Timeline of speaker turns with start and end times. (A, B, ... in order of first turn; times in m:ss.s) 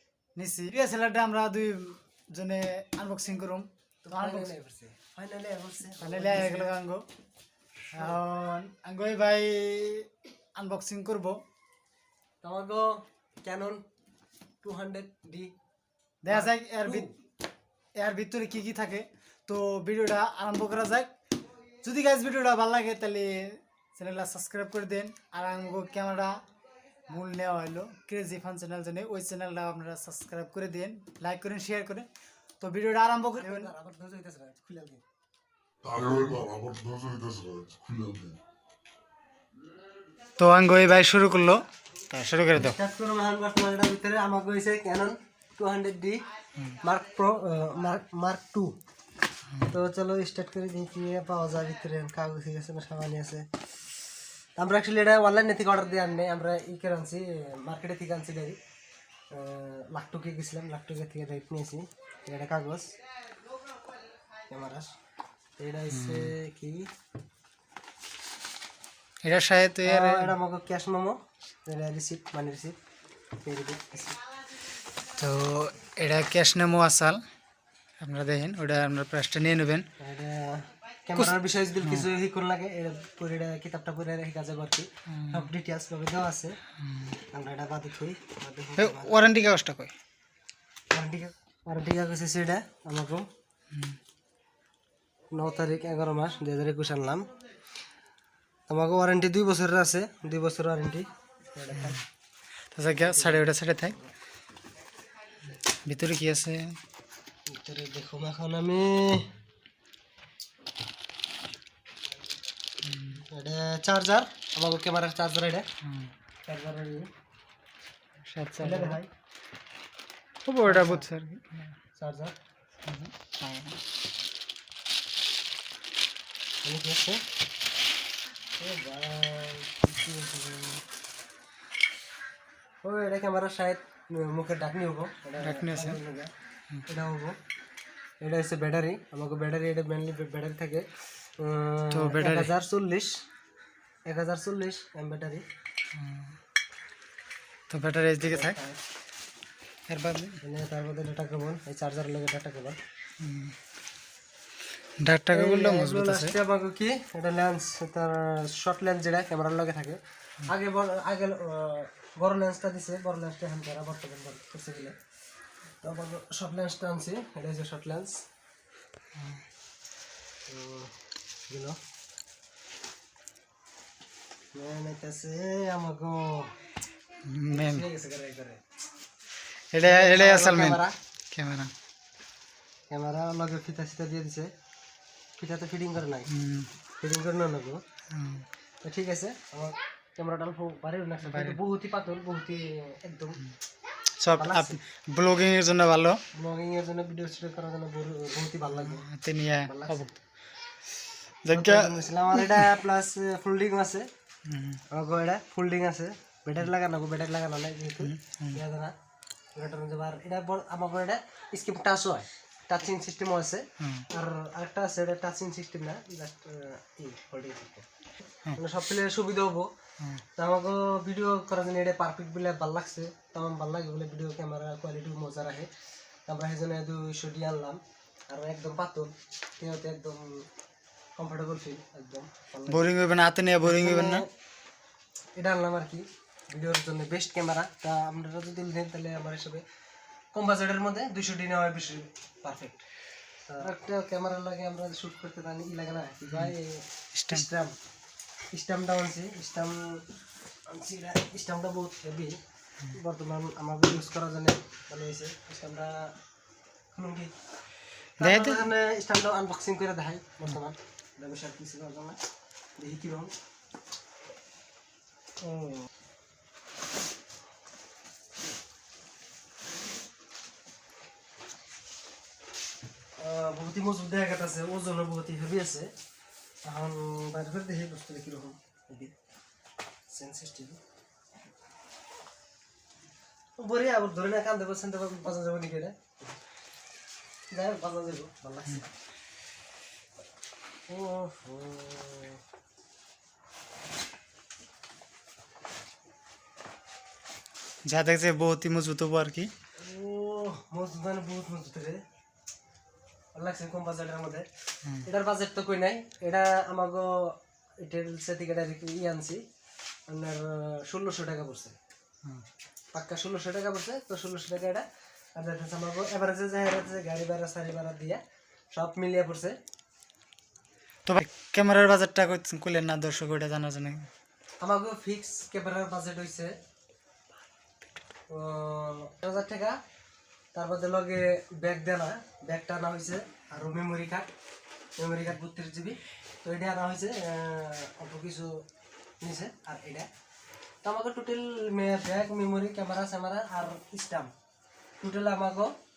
0:00.4-0:04.5 A
0:04.0-0:06.7 B
0:06.0-0:07.0 A
0:07.9-0:11.4 A
0:12.4-0:13.8 B
0:14.6-0:15.5 B
0:16.2-0:17.1 A
0:16.3-0:17.1 B
0:18.0-0:21.1 A
0:21.8-0:26.4 A
0:27.1-0:32.1 A
0:32.6-0:33.7 A
0:33.4-0:35.0 B
0:35.9-0:38.1 C
0:40.4-0:42.8 A
0:42.6-0:46.2 B
0:46.8-0:48.7 B
0:49.7-0:53.6 B
0:54.6-0:58.6 B
0:59.3-1:02.9 B
1:04.5-1:04.9 B
1:05.6-1:06.9 B
1:05.9-1:06.3 A
1:09.2-1:10.4 A
1:09.8-1:12.8 B
1:13.4-1:14.2 B
1:15.2-1:17.2 A
1:18.0-1:19.9 A
1:20.0-1:26.6 B
1:21.1-1:22.1 A
1:25.1-1:25.5 A
1:26.8-1:27.2 A
1:27.3-1:29.1 B
1:28.8-1:29.9 A
1:30.9-1:33.3 B
1:35.3-1:37.3 B
1:38.7-1:42.0 B
1:42.7-1:44.0 A
1:43.0-1:44.1 B
1:45.7-1:46.8 A
1:47.5-1:49.3 B
1:52.8-1:53.2 A
1:53.2-1:55.7 B
1:55.8-1:56.1 A
1:56.4-1:57.1 B
1:58.2-1:59.0 A
1:58.6-1:59.1 B
2:00.4-2:01.7 A
2:00.6-2:01.1 B
2:02.0-2:02.3 B
2:02.8-2:03.8 A
2:06.6-2:07.2 B
2:08.6-2:10.8 B
2:12.8-2:16.3 B
2:15.4-2:16.0 A
2:16.9-2:17.4 B
2:18.2-2:20.9 B
2:21.4-2:23.2 B
2:21.9-2:22.5 A
2:24.0-2:25.4 B
2:26.0-2:26.3 A
2:27.7-2:28.6 A
2:28.2-2:28.8 B
2:29.9-2:30.4 A
2:30.4-2:32.8 B
2:33.2-2:33.5 A
2:35.0-2:36.4 A
2:35.3-2:45.0 B
2:45.8-2:48.2 B
2:50.5-2:50.9 B
2:51.5-2:51.8 B
2:54.5-2:56.5 B
2:57.3-2:57.8 A
2:57.5-2:58.6 B
2:59.7-3:00.8 A
2:59.8-3:01.0 B
3:01.3-3:01.7 A
3:02.9-3:04.5 B
3:05.4-3:06.3 B
3:06.3-3:06.7 A
3:07.0-3:07.8 B
3:08.1-3:08.4 A
3:08.8-3:13.4 B
3:11.2-3:11.6 A
3:14.2-3:16.2 A
3:14.3-3:14.8 B
3:16.3-3:19.0 B
3:18.7-3:20.2 A
3:19.6-3:20.0 B
3:21.4-3:22.7 A
3:21.5-3:24.1 B
3:24.5-3:24.8 A
3:24.9-3:28.9 B
3:28.0-3:28.6 A
3:29.5-3:37.9 B
3:33.8-3:34.1 A
3:38.6-3:39.7 B
3:40.4-3:45.7 B
3:46.3-3:50.5 B
3:51.2-3:52.9 B
3:52.7-3:54.2 A
3:53.6-3:54.3 B
3:55.3-3:59.6 B
4:00.3-4:02.8 B
4:03.5-4:07.7 B
4:06.3-4:06.5 A
4:07.1-4:07.4 A
4:08.5-4:10.1 B
4:10.7-4:12.4 B
4:12.9-4:16.1 B
4:16.9-4:17.3 B
4:18.2-4:18.6 A
4:18.2-4:22.2 B
4:22.8-4:23.3 B
4:25.4-4:25.9 B
4:33.2-4:35.9 B
4:36.6-4:39.1 B
4:40.1-4:40.8 B
4:43.6-4:46.2 B
4:47.5-4:48.8 B
4:50.9-4:52.4 B
4:57.8-4:59.5 A
4:59.8-5:02.0 B
5:03.3-5:04.5 B
5:05.0-5:09.4 B
5:10.1-5:11.8 B
5:12.9-5:18.2 B
5:18.7-5:19.6 B
5:21.0-5:24.1 A
5:24.6-5:26.6 B
5:28.3-5:29.8 B
5:30.5-5:34.3 B
5:35.0-5:38.6 B
5:39.2-5:40.1 B
5:40.8-5:44.3 B
5:45.0-5:45.7 B